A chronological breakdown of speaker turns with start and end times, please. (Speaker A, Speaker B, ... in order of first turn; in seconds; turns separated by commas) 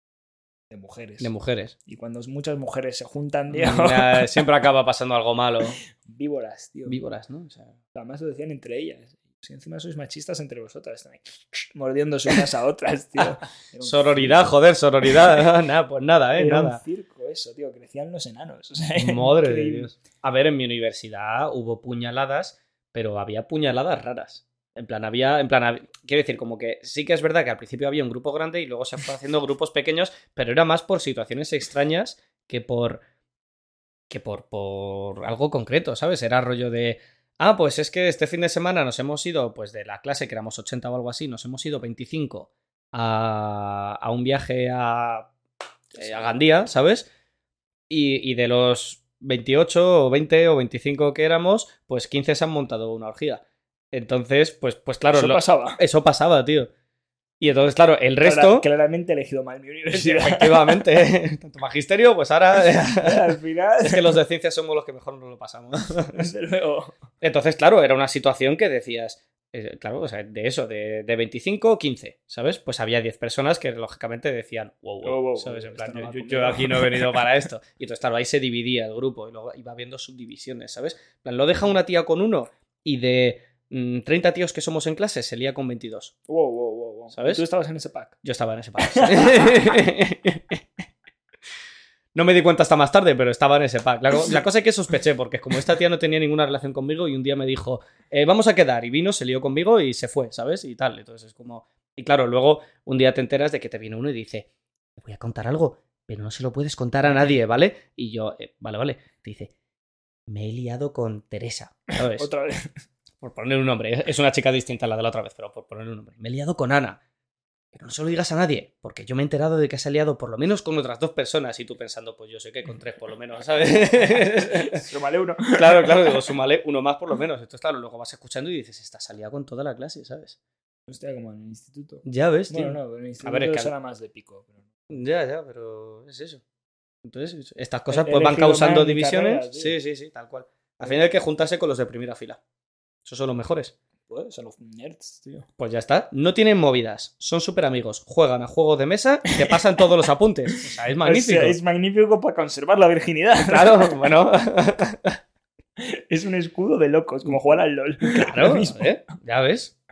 Speaker A: 0.7-1.3, Speaker B: 1.2-1.8, Speaker A: 1.9-4.4, Speaker B: 3.5-5.8, Speaker A: 6.0-7.0, Speaker B: 6.9-7.7, Speaker A: 7.9-14.5, Speaker B: 13.8-16.8, Speaker A: 16.3-19.9, Speaker B: 19.0-33.0, Speaker B: 34.1-45.3, Speaker B: 45.9-47.1, Speaker B: 47.9-56.7, Speaker A: 55.1-55.8, Speaker B: 57.4-58.7, Speaker A: 58.2-60.9, Speaker B: 59.9-66.3, Speaker A: 62.9-64.2, Speaker A: 66.1-66.9, Speaker B: 67.2-86.1, Speaker A: 75.0-77.2, Speaker A: 86.3-88.2, Speaker B: 87.1-87.4, Speaker B: 88.2-90.6, Speaker A: 88.8-89.8, Speaker B: 92.1-109.5, Speaker B: 110.3-112.3, Speaker A: 112.1-112.7, Speaker B: 113.2-117.0, Speaker B: 117.7-124.8, Speaker A: 124.5-126.3, Speaker B: 125.5-130.4, Speaker A: 130.9-134.6, Speaker B: 132.1-133.7, Speaker B: 134.9-136.4, Speaker B: 137.0-142.4, Speaker A: 137.9-139.8, Speaker B: 143.1-143.7, Speaker A: 144.1-145.5, Speaker B: 145.6-151.6, Speaker A: 149.3-149.6, Speaker A: 150.6-154.1, Speaker B: 153.4-155.2, Speaker A: 155.8-159.0, Speaker B: 158.1-159.7